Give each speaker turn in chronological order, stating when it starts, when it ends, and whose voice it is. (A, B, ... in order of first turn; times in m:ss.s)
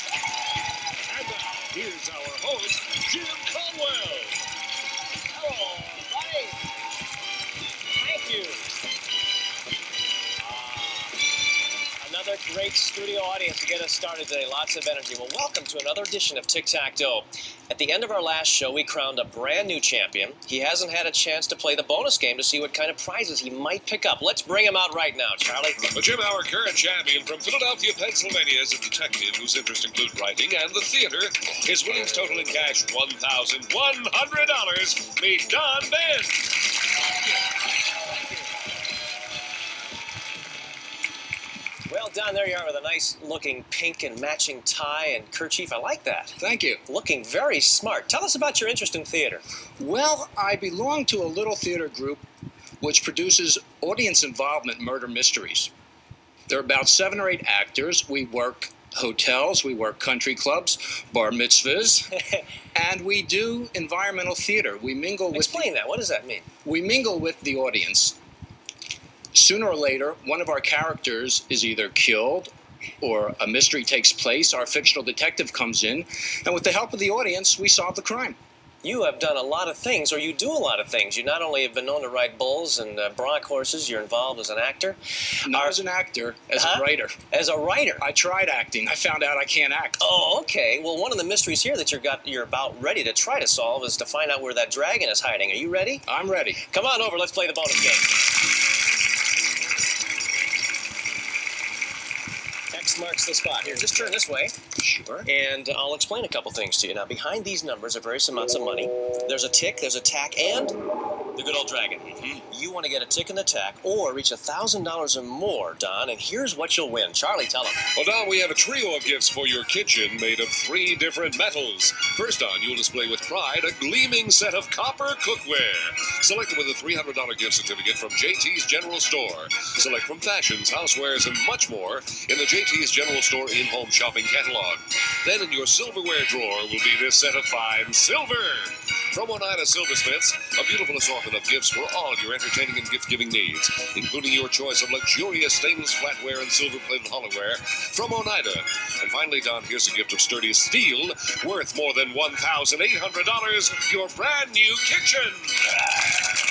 0:01.1-0:01.7 A
0:01.7-0:04.4 B
0:05.3-0:06.6 A
0:08.0-0:08.7 A
0:10.4-0:11.2 A
0:12.0-0:25.8 A
0:25.9-0:36.4 B
0:41.9-0:49.4 A
0:46.4-0:46.8 C
0:49.8-0:52.2 C
0:52.8-0:55.7 C
0:56.5-1:02.1 C
1:02.1-1:02.4 A
1:02.7-1:05.7 C
1:05.3-1:06.4 A
1:06.6-1:08.2 C
1:09.3-1:18.4 C
1:18.8-1:25.8 A
1:25.4-1:27.1 C
1:26.5-1:28.0 A
1:28.0-1:30.0 C
1:30.0-1:36.0 A
1:36.0-1:36.6 C
1:36.7-1:38.1 A
1:42.7-1:44.5 A
1:43.6-1:44.1 C
1:44.8-1:45.3 C
1:45.2-1:50.8 A
1:51.4-1:57.8 A
1:52.2-1:52.4 C
1:58.0-2:36.0 B